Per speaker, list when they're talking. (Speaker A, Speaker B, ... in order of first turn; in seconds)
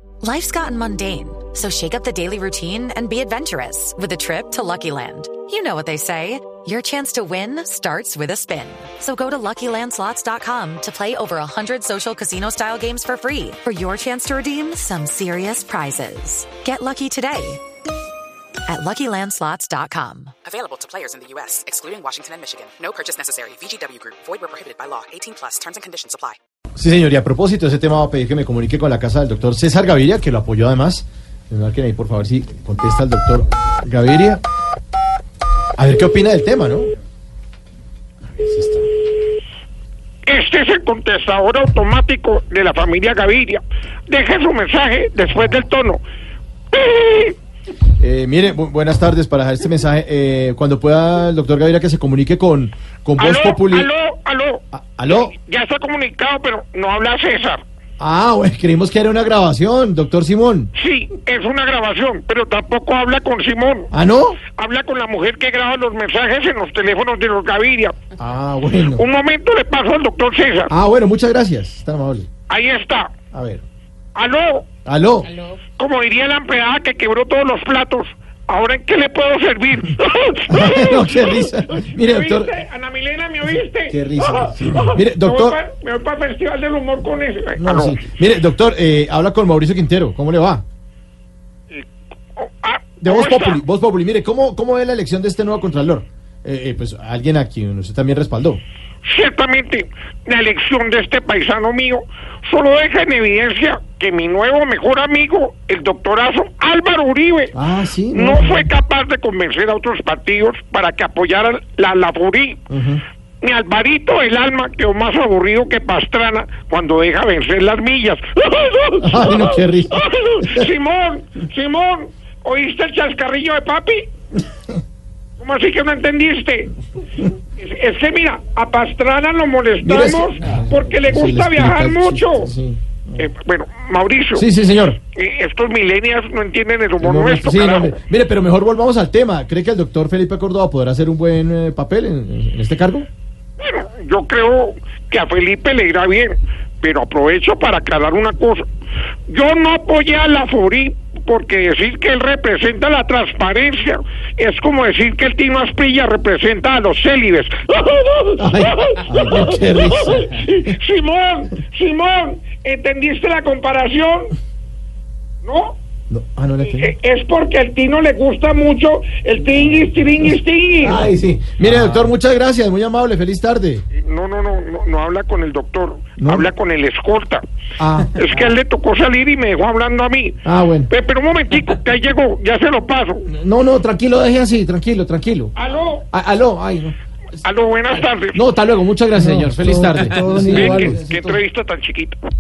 Speaker A: 0.2-17.6, 18.6-20.3, 189.2-191.2
Speaker B: 20.4-26.4
Speaker C: 26.8-34.4, 35.8-36.9, 38.3-38.9, 48.0-53.9, 54.7-55.3, 58.0-60.7, 63.9-64.4, 68.2-69.0, 70.7-72.3, 73.3-73.6, 74.8-75.3, 80.5-82.5, 83.9-85.6, 87.6-90.6, 93.0-98.6, 107.5-108.7, 112.7-113.0, 119.0-120.7, 129.8-133.3, 134.3-135.0, 137.0-143.1, 158.4-160.5, 166.1-166.9, 170.8-173.8, 176.2-176.5, 177.8-178.2, 180.4-180.9, 183.3-185.5, 186.1-186.9, 188.3-191.0
Speaker D: 40.3-46.0, 46.7-47.3, 53.2-57.6, 60.8-63.9, 64.5-68.0, 68.9-70.7, 72.5-73.1, 74.1-74.7, 75.7-88.0, 91.7-93.6, 99.0-107.5, 108.1-112.6, 113.4-124.1, 125.4-126.7, 127.6-132.5, 133.2-134.4, 135.1-138.0, 143.6-148.7, 149.3-164.3, 165.4-165.8, 166.7-171.1, 173.9-177.4, 178.2-183.3, 185.6-186.1, 187.4-188.4, 190.4-192.2